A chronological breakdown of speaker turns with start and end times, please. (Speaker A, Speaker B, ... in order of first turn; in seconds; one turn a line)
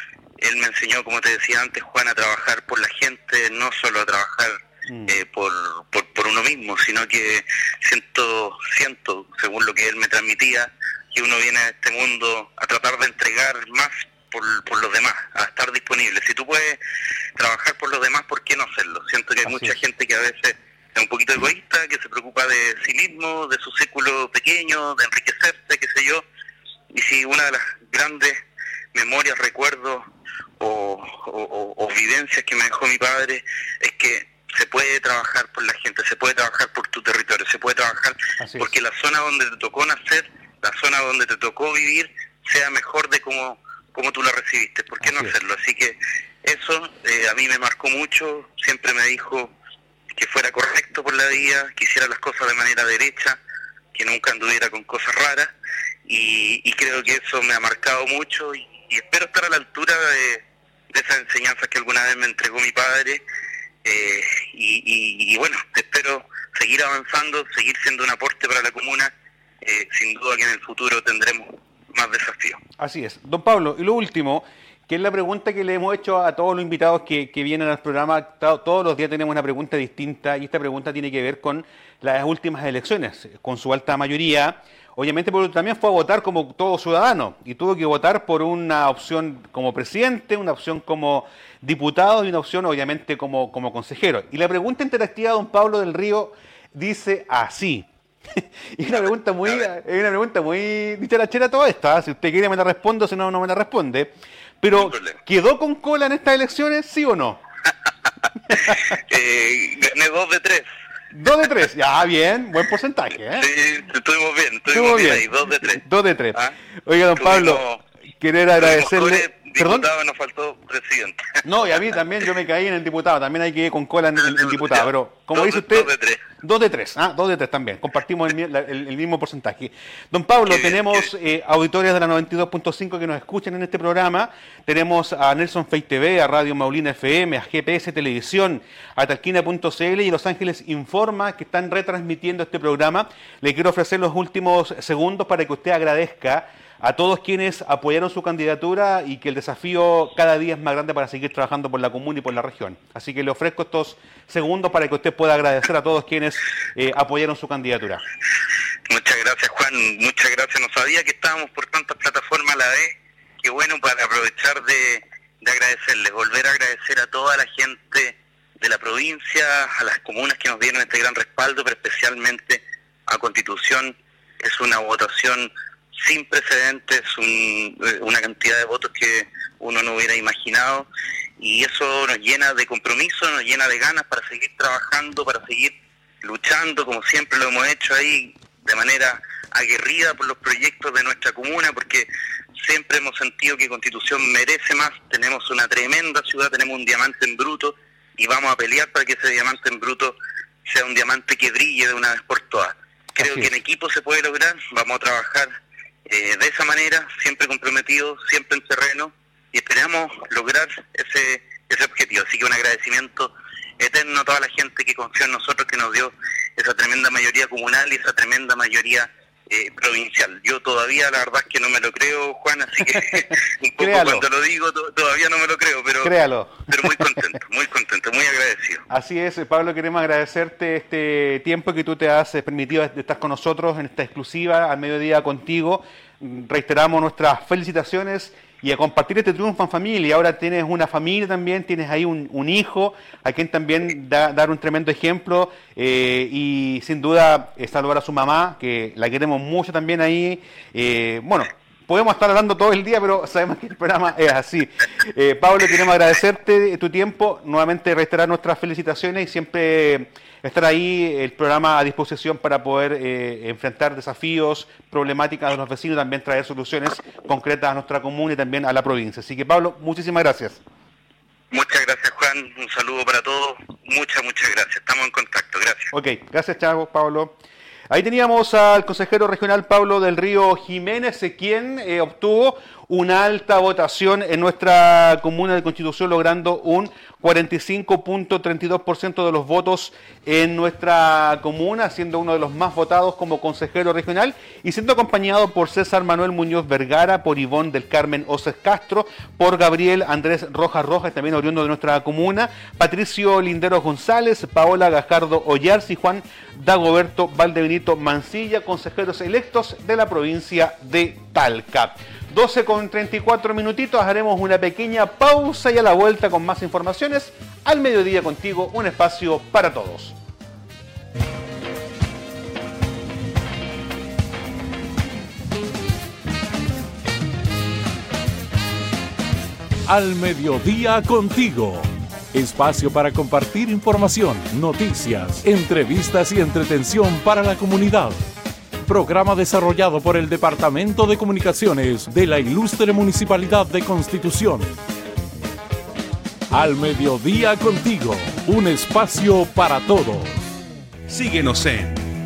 Speaker A: 0.4-16.8
Speaker B: 4.9-5.2
Speaker A: 17.4-26.2
Speaker B: 19.4-19.7
Speaker A: 26.9-28.4
Speaker A: 28.9-30.1
Speaker A: 30.6-49.5
Speaker B: 38.4-38.7
Speaker B: 45.0-45.4
Speaker A: 50.1-53.4
Speaker A: 53.9-55.5
Speaker A: 56.1-63.2
Speaker A: 63.8-72.6
Speaker B: 72.8-107.4
Speaker A: 98.9-99.6
Speaker A: 104.7-105.2
Speaker A: 108.7-110.7
Speaker B: 111.1-113.5
Speaker A: 113.3-116.5
Speaker B: 114.7-117.6
Speaker A: 117.1-117.8
Speaker B: 118.2-119.9
Speaker A: 118.5-121.7
Speaker B: 121.4-158.0
Speaker A: 124.2-126.2
Speaker A: 130.5-131.1
Speaker A: 158.9-180.9
Speaker A: 181.4-205.5
Speaker B: 203.2-203.5
Speaker A: 206.1-226.1
Speaker B: 223.1-224.2
Speaker B: 226.0-227.3
Speaker A: 226.7-228.8
Speaker B: 228.9-270.6
Speaker A: 271.5-275.9
Speaker B: 275.9-277.4
Speaker B: 277.9-320.1
Speaker C: 329.9-338.2
Speaker C: 338.9-344.8
Speaker C: 346.5-350.4
Speaker B: 351.1-352.1